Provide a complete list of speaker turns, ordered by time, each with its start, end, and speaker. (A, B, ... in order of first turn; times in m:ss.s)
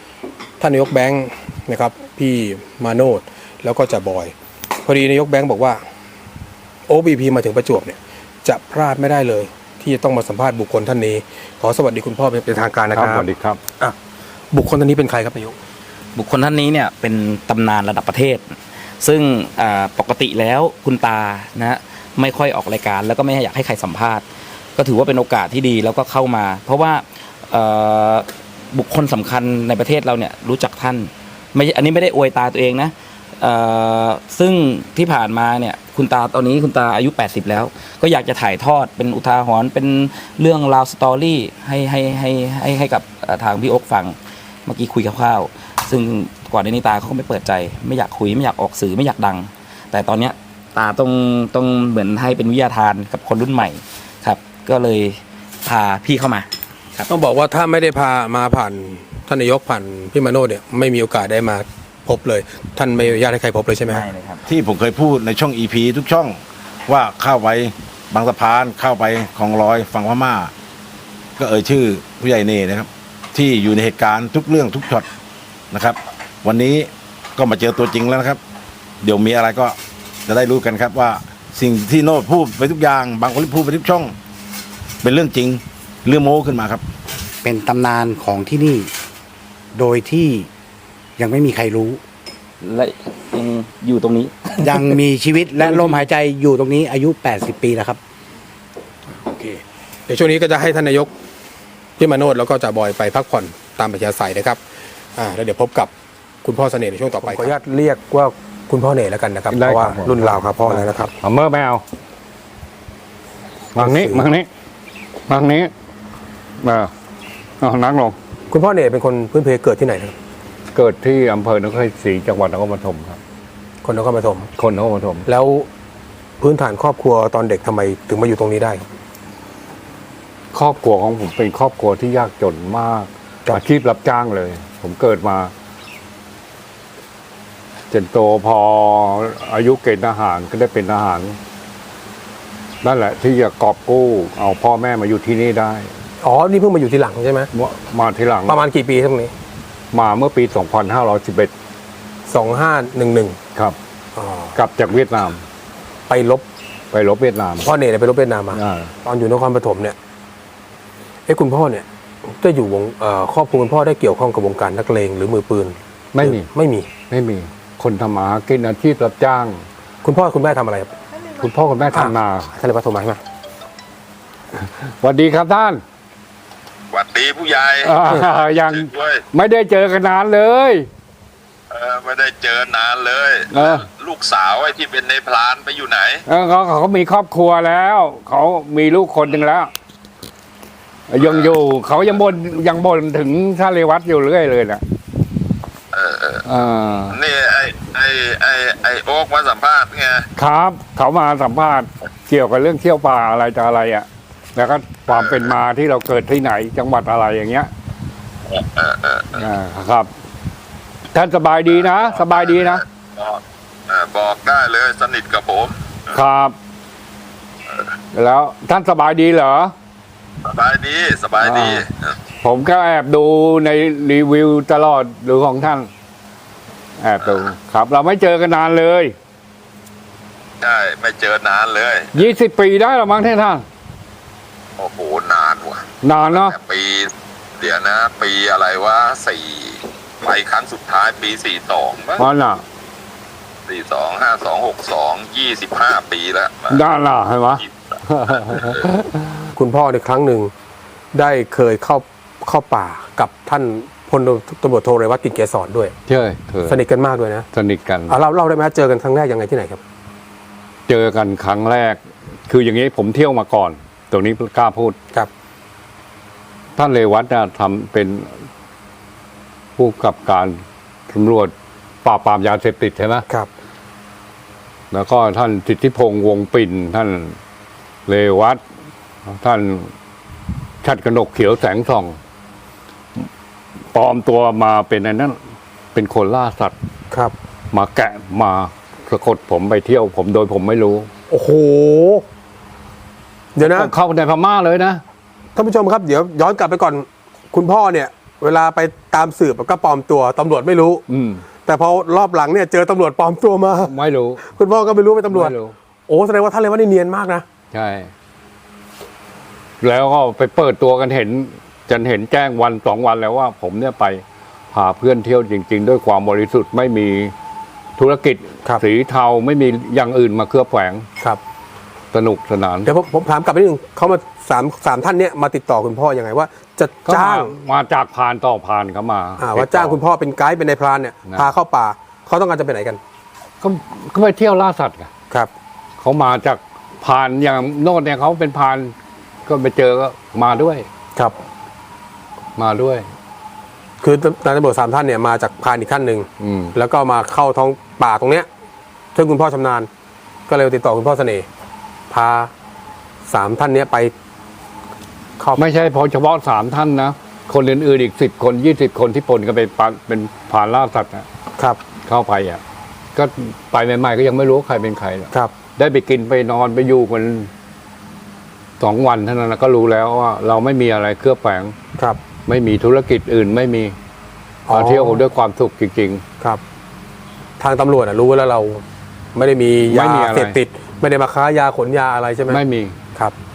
0:00.6-0:05.8 A
0:06.9-0:13.3 A
0:12.9-0:13.6 B
0:14.5-0:15.6 A
0:16.1-0:24.2 C
0:24.8-0:57.1 C
0:57.1-1:04.0 A
1:03.9-1:04.4 C
1:04.5-1:10.5 D
1:11.4-1:15.1 D
1:15.7-1:18.4 D
1:19.0-1:24.1 D
1:25.0-1:26.8 D
1:27.4-1:28.9 E
1:29.7-1:30.5 E
1:31.2-1:32.0 E
1:32.6-1:34.6 C
1:34.6-1:38.0 E
1:39.2-1:41.1 A
1:42.0-1:44.6 A
1:45.2-1:45.9 A
1:46.4-1:51.1 A
1:49.5-1:51.8 B
1:53.7-1:54.5 B
1:53.8-1:54.3 A
1:55.3-1:55.7 B
1:56.6-1:56.9 B
1:57.6-1:58.2 B
1:58.5-2:00.1 A
2:00.7-2:03.2 B
2:03.8-2:04.5 A
2:04.6-2:05.2 B
2:05.2-2:05.7 A
2:06.4-2:08.8 A
2:10.5-2:15.5 B
2:17.9-2:21.4 B
2:22.8-2:25.9 B
2:26.2-2:27.5 A
2:27.5-2:28.6 B
2:28.4-2:29.3 A
2:29.9-2:31.5 B
2:32.3-2:33.4 A
2:34.2-2:34.6 A
2:34.5-2:35.4 B
2:36.1-2:36.4 A
2:36.9-2:37.7 B
2:37.6-2:40.0 A
2:38.5-2:38.9 B
2:41.3-2:46.9 A
2:46.1-2:46.5 B
2:47.1-2:49.6 B
2:50.0-2:50.9 A
2:51.4-2:52.5 B
2:51.9-2:53.2 A
2:54.8-2:55.8 B
2:56.9-2:59.2 F
2:57.8-3:00.9 B
3:01.7-3:06.2 F
3:03.5-3:03.8 B
3:06.3-3:09.7 B
3:11.1-3:14.8 B
3:11.2-3:11.5 F
3:15.9-3:16.4 F
3:16.4-3:17.2 B
3:17.1-3:20.2 F
3:20.4-3:27.7 B
3:25.1-3:25.5 F
3:28.5-3:29.3 F
3:29.3-3:30.1 B
3:31.1-3:32.8 B
3:31.8-3:35.7 F
3:36.1-3:36.6 B
3:38.1-3:39.7 B
3:40.4-3:41.9 F
3:41.4-3:41.8 B
3:42.4-3:45.9 B
3:47.0-3:49.1 B
3:50.6-3:52.1 F
3:52.1-3:53.6 B
3:54.8-4:02.2 F
3:56.0-3:56.6 B
4:02.2-4:02.6 B
4:03.7-4:06.7 F
4:06.7-4:09.4 B
4:09.5-4:10.5 A
4:11.1-4:15.9 A
4:16.1-4:16.8 B
4:16.6-4:17.5 A
4:17.5-4:18.1 B
4:18.1-4:19.8 A
4:20.9-4:25.0 B
4:26.8-4:28.3 B
4:29.8-4:31.5 B
4:32.0-4:33.2 B
4:34.9-4:37.4 B
4:38.1-4:38.6 B
4:39.2-4:39.9 B
4:40.8-4:42.2 B
4:43.9-4:45.4 B
4:45.9-4:46.7 B
4:47.7-4:51.1 B
4:51.3-4:52.2 A
4:53.6-4:53.9 A
4:53.6-4:55.0 B
4:55.6-5:01.0 A
5:01.1-5:01.4 B
5:01.6-5:05.6 A
5:03.8-5:04.4 B
5:05.3-5:05.7 B
5:06.1-5:07.4 A
5:07.7-5:08.1 B
5:09.8-5:17.3 B
5:18.0-5:21.1 B
5:22.1-5:22.9 B
5:22.8-5:27.5 A
5:27.0-5:30.0 B
5:29.4-5:33.0 A
5:33.6-5:35.1 B
5:36.0-5:38.9 B
5:39.4-5:40.9 B
5:42.6-5:43.1 B
5:44.0-5:48.5 A
5:46.4-5:46.7 B
5:49.1-5:49.9 A
5:50.5-5:51.5 A
5:52.1-5:52.5 A
5:53.3-5:54.1 A
5:55.6-6:01.2 B
6:02.0-6:02.6 B
6:03.1-6:07.5 B
6:08.8-6:11.7 B
6:12.5-6:14.0 B
6:14.6-6:15.3 A
6:14.7-6:16.2 B
6:17.6-6:18.8 A
6:19.3-6:22.6 A
6:19.9-6:20.6 B
6:22.5-6:22.9 B